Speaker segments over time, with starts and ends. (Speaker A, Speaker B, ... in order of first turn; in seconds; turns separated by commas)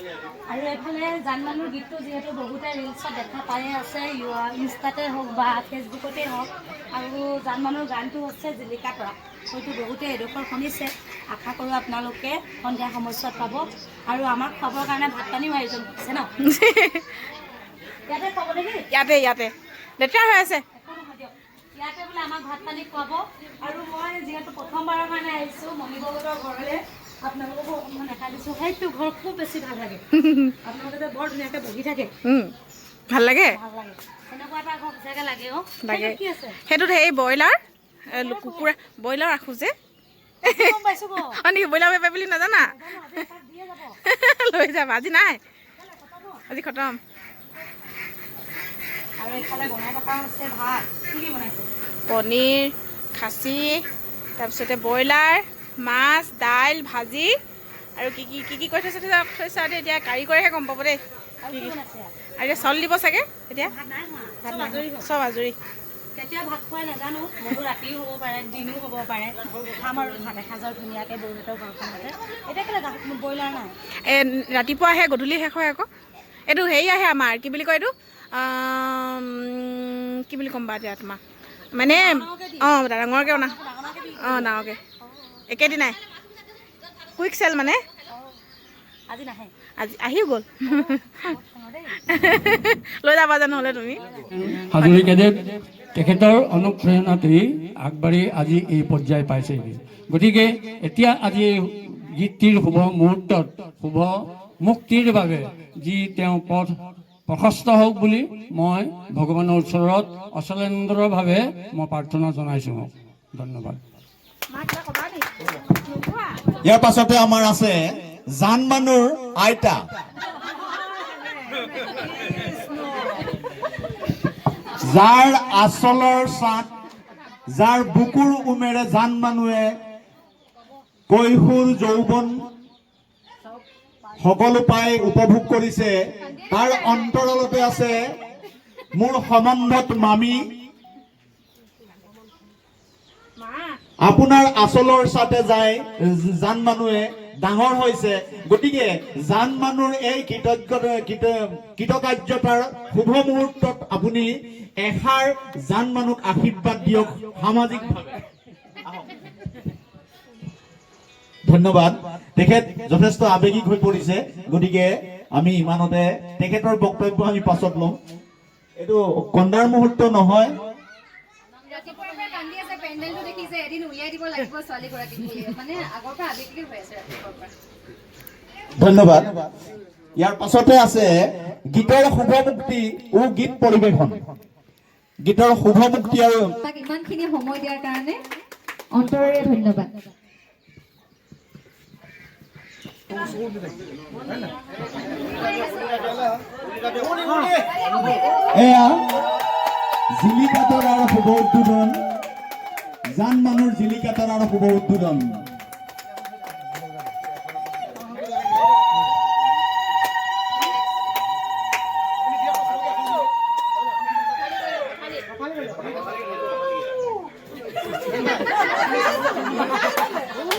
Speaker A: 0.5-16.3, Speaker B: 16.5-17.0, Speaker A: 18.1-18.8, Speaker B: 18.9-20.6, Speaker A: 20.7-30.0, Speaker B: 30.1-30.5, Speaker A: 30.6-32.1, Speaker B: 32.2-32.5, Speaker B: 33.1-33.5, Speaker A: 33.5-36.6, Speaker B: 35.8-37.6, Speaker A: 38.1-38.7, Speaker B: 38.1-39.7, Speaker A: 40.4-41.4, Speaker B: 41.2-42.6, Speaker A: 42.5-44.0, Speaker B: 44.0-45.4, Speaker A: 45.8-46.4, Speaker B: 46.5-47.0, Speaker A: 49.2-51.7, Speaker B: 52.1-53.8, Speaker B: 54.4-57.3, Speaker B: 58.0-61.0, Speaker A: 61.4-62.1, Speaker B: 62.4-63.7, Speaker A: 63.6-65.1, Speaker B: 64.4-65.5, Speaker A: 66.1-73.7, Speaker B: 74.0-75.9, Speaker B: 76.5-81.2, Speaker B: 81.7-83.5, Speaker A: 81.8-84.5, Speaker B: 84.2-84.8, Speaker B: 85.5-86.0, Speaker B: 87.2-87.8, Speaker A: 89.1-89.5, Speaker B: 89.8-90.6, Speaker A: 90.7-92.0, Speaker B: 92.1-94.0, Speaker C: 94.3-106.7, Speaker B: 94.7-95.2, Speaker C: 107.3-113.8, Speaker B: 114.5-116.5, Speaker D: 116.6-119.8, Speaker D: 124.8-126.7, Speaker D: 127.5-129.7, Speaker D: 131.1-132.4, Speaker D: 134.2-138.0, Speaker D: 139.0-140.4, Speaker B: 143.4-143.8, Speaker D: 144.0-154.3, Speaker D: 154.8-158.2, Speaker D: 161.5-167.9, Speaker D: 168.8-170.5, Speaker E: 171.7-177.5, Speaker D: 178.8-179.4, Speaker D: 180.2-181.1, Speaker D: 181.7-184.2, Speaker D: 185.2-186.5, Speaker E: 186.6-188.2, Speaker E: 188.9-189.9, Speaker E: 195.0-196.4, Speaker E: 197.0-198.6, Speaker D: 198.5-199.0, Speaker D: 200.2-201.9, Speaker D: 203.1-205.3, Speaker A: 218.2-219.7